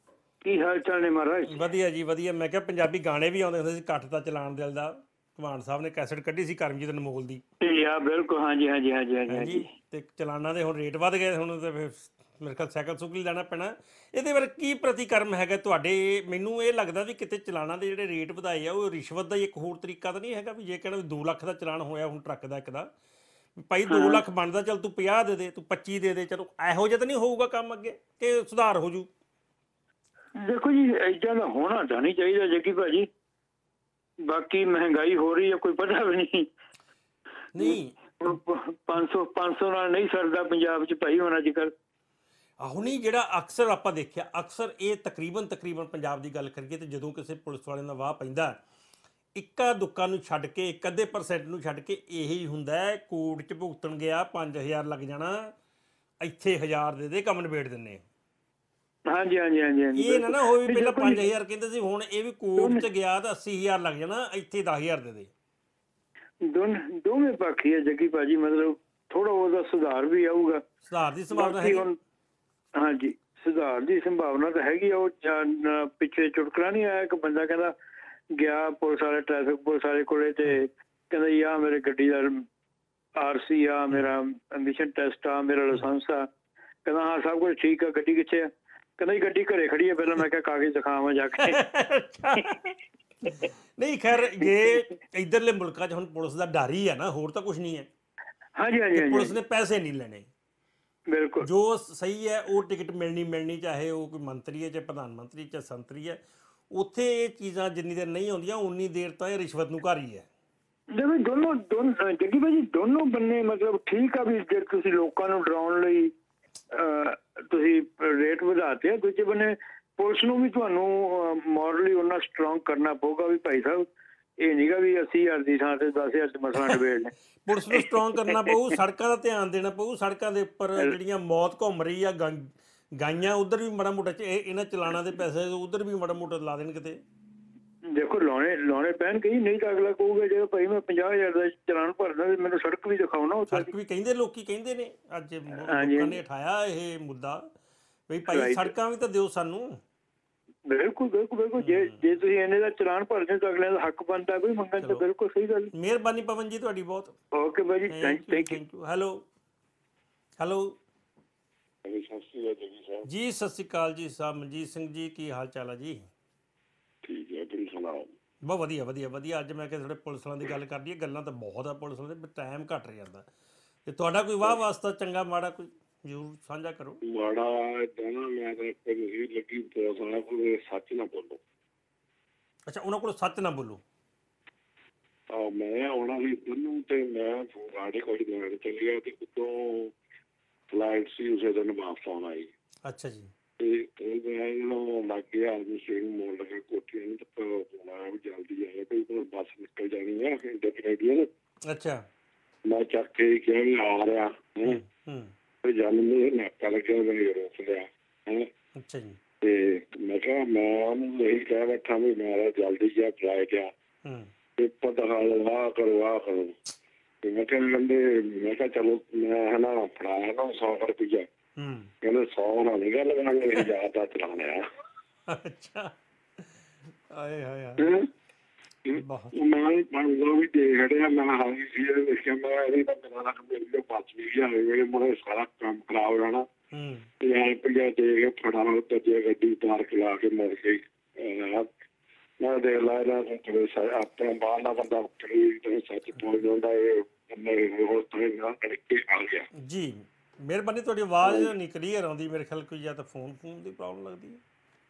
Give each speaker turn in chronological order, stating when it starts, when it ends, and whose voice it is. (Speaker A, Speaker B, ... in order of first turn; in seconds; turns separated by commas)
Speaker A: 0.4-1.6, Speaker B: 1.5-7.4, Speaker A: 7.6-9.7, Speaker B: 9.3-22.9, Speaker B: 23.6-29.1, Speaker A: 23.9-24.2, Speaker A: 30.4-33.1, Speaker A: 34.2-36.5, Speaker B: 37.5-38.0, Speaker A: 37.6-41.7, Speaker B: 42.6-48.6, Speaker B: 49.4-55.5, Speaker B: 56.2-58.0, Speaker A: 59.1-61.2, Speaker B: 59.9-65.3, Speaker A: 62.6-62.9, Speaker A: 66.5-70.6, Speaker B: 70.9-71.9, Speaker A: 71.3-72.0, Speaker A: 72.8-77.7, Speaker A: 78.3-82.4, Speaker A: 83.2-86.3, Speaker A: 86.8-91.6, Speaker B: 91.4-97.9, Speaker A: 98.6-99.4, Speaker B: 98.9-100.3, Speaker A: 101.1-101.5, Speaker B: 101.4-106.2, Speaker B: 106.7-110.3, Speaker A: 110.9-116.1, Speaker A: 116.7-123.9, Speaker A: 124.4-127.1, Speaker B: 127.4-137.0, Speaker A: 127.7-128.4, Speaker A: 137.9-143.7, Speaker B: 143.5-147.5, Speaker A: 145.6-146.2, Speaker B: 148.1-149.8, Speaker A: 148.3-148.7, Speaker A: 150.7-155.7, Speaker B: 151.6-152.0, Speaker B: 154.8-155.0, Speaker B: 155.7-157.1, Speaker A: 157.3-158.6, Speaker B: 157.9-159.2, Speaker B: 160.4-160.8, Speaker C: 161.8-163.1, Speaker B: 163.1-166.0, Speaker C: 167.0-168.1, Speaker B: 168.4-173.3, Speaker B: 173.8-177.0, Speaker C: 177.0-181.4, Speaker B: 182.7-183.8, Speaker C: 185.3-189.9, Speaker C: 190.7-192.5, Speaker B: 192.8-193.3, Speaker C: 193.6-201.3, Speaker B: 201.7-202.0, Speaker C: 202.6-204.8, Speaker B: 204.6-205.3, Speaker C: 205.6-208.5, Speaker B: 208.8-209.2, Speaker C: 209.4-213.7, Speaker B: 214.0-214.3, Speaker C: 214.6-216.6, Speaker C: 217.2-221.3, Speaker B: 221.6-221.9, Speaker C: 222.0-224.6, Speaker B: 225.3-225.9, Speaker B: 227.1-228.0, Speaker C: 227.8-228.1, Speaker C: 228.9-236.5, Speaker B: 228.9-229.3, Speaker B: 236.7-237.1, Speaker C: 237.2-241.7, Speaker C: 242.4-249.5, Speaker B: 249.6-254.4, Speaker C: 251.2-251.5